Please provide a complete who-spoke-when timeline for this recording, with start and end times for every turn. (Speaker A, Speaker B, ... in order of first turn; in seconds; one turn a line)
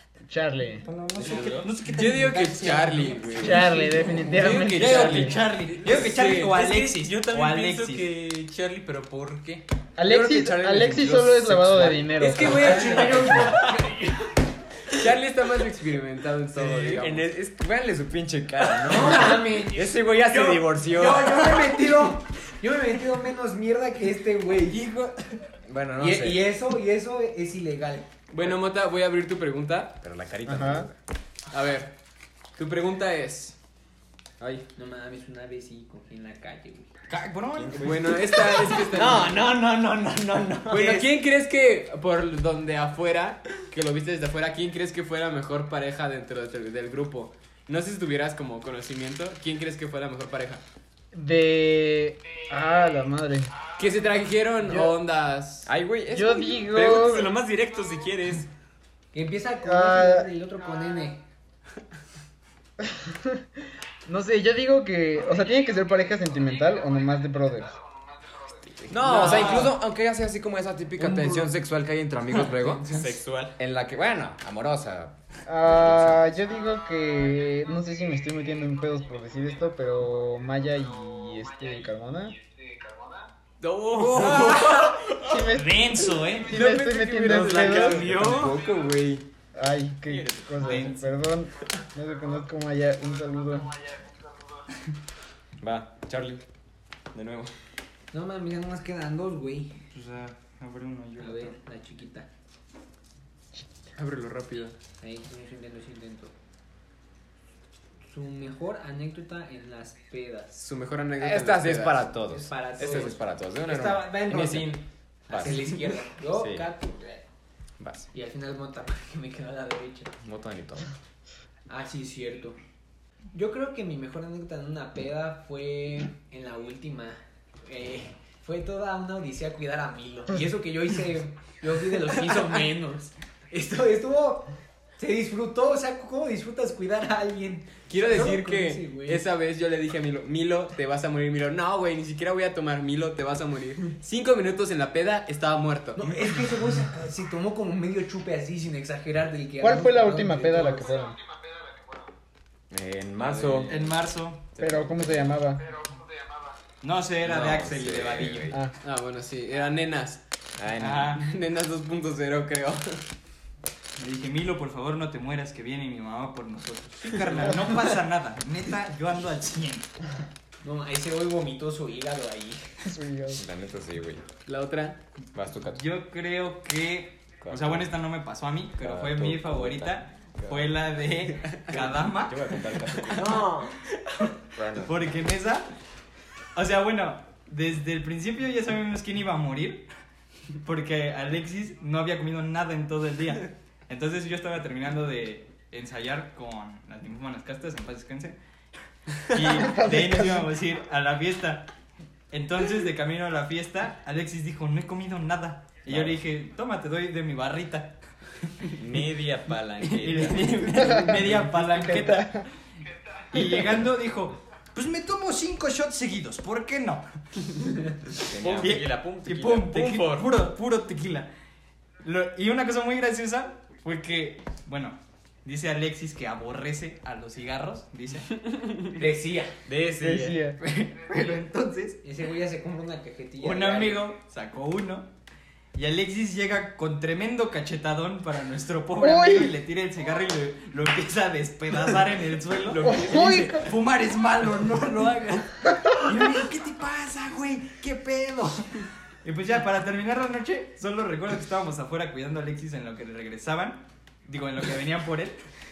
Speaker A: 0.3-0.9
Speaker B: 0.9-3.5
Speaker C: 1.2-1.7
Speaker D: 1.8-5.3
Speaker A: 3.4-5.4
Speaker C: 4.6-5.0
Speaker B: 4.7-8.1
Speaker C: 5.7-11.4
Speaker D: 5.9-6.4
Speaker A: 10.0-13.6
Speaker E: 10.2-10.5
Speaker E: 11.3-12.9
Speaker D: 12.2-14.1
Speaker C: 12.3-14.0
Speaker F: 12.6-13.8
Speaker D: 14.9-17.3
Speaker E: 16.5-21.6
Speaker F: 18.8-20.1
Speaker F: 20.7-24.9
Speaker E: 25.6-26.5
Speaker F: 26.0-28.1
Speaker D: 28.3-30.0
Speaker E: 30.0-31.0
Speaker A: 30.5-30.9
Speaker D: 31.5-31.9
Speaker D: 32.5-33.6
Speaker F: 34.8-36.9
Speaker B: 37.1-38.3
Speaker E: 37.5-41.0
Speaker D: 37.7-39.5
Speaker D: 40.7-50.6
Speaker A: 51.1-53.5
Speaker D: 53.7-55.7
Speaker E: 55.7-56.9
Speaker A: 56.1-57.3
Speaker C: 56.7-58.5
Speaker F: 59.1-61.2
Speaker A: 59.6-60.3
Speaker A: 62.8-63.4
Speaker A: 64.1-67.8
Speaker E: 68.9-73.0
Speaker F: 69.0-69.7
Speaker C: 69.1-69.5
Speaker F: 71.0-71.5
Speaker F: 72.6-73.1
Speaker C: 72.9-73.6
Speaker E: 73.6-76.3
Speaker A: 75.5-82.4
Speaker D: 83.6-85.0
Speaker B: 83.9-86.6
Speaker C: 84.0-85.0
Speaker A: 85.2-88.2
Speaker C: 86.5-88.7
Speaker D: 86.8-88.0
Speaker E: 87.4-89.3
Speaker B: 88.1-88.5
Speaker A: 89.5-93.7
Speaker C: 90.1-90.9
Speaker B: 90.6-91.1
Speaker E: 95.6-96.4
Speaker E: 97.1-97.5
Speaker F: 98.1-99.8
Speaker B: 99.9-101.6
Speaker F: 101.2-102.3
Speaker D: 104.0-104.8
Speaker F: 105.0-106.3
Speaker F: 108.0-110.6
Speaker D: 110.5-112.1
Speaker E: 111.2-115.7
Speaker F: 112.3-117.3
Speaker E: 116.3-116.7
Speaker E: 117.8-118.1
Speaker F: 118.1-120.1
Speaker E: 120.2-120.9
Speaker F: 121.7-122.6
Speaker F: 123.3-139.2
Speaker D: 137.9-146.2
Speaker F: 145.9-150.9
Speaker A: 149.6-151.2
Speaker E: 152.7-153.9
Speaker C: 153.2-153.7
Speaker B: 153.7-154.5
Speaker E: 154.6-155.3
Speaker A: 154.6-155.7
Speaker B: 156.8-158.6
Speaker E: 157.2-158.6
Speaker D: 158.8-160.2
Speaker E: 160.6-161.2
Speaker B: 160.8-161.2
Speaker D: 161.2-163.0
Speaker B: 164.0-169.9
Speaker F: 170.6-172.7
Speaker A: 172.9-173.4
Speaker E: 173.3-174.3
Speaker D: 174.5-175.0
Speaker E: 175.3-175.8
Speaker B: 175.7-182.4
Speaker E: 177.4-178.0
Speaker E: 178.8-180.7
Speaker E: 181.7-183.8
Speaker E: 184.5-184.9
Speaker B: 184.8-185.7
Speaker B: 186.6-189.9
Speaker B: 190.6-198.4
Speaker B: 199.3-201.7
Speaker A: 199.6-200.4
Speaker B: 202.3-207.9
Speaker E: 205.9-206.2
Speaker C: 208.8-211.0
Speaker B: 209.8-212.4
Speaker A: 210.8-212.5
Speaker B: 213.3-217.1
Speaker E: 218.3-218.8
Speaker C: 218.3-220.3
Speaker B: 218.4-221.3
Speaker B: 222.0-228.4
Speaker D: 228.5-228.8
Speaker F: 228.9-229.6
Speaker C: 229.7-230.4
Speaker A: 229.9-230.6
Speaker B: 230.6-232.0
Speaker F: 232.0-234.1
Speaker B: 233.4-235.1
Speaker B: 235.8-255.4
Speaker A: 239.0-239.6
Speaker C: 242.7-243.5
Speaker A: 242.8-243.7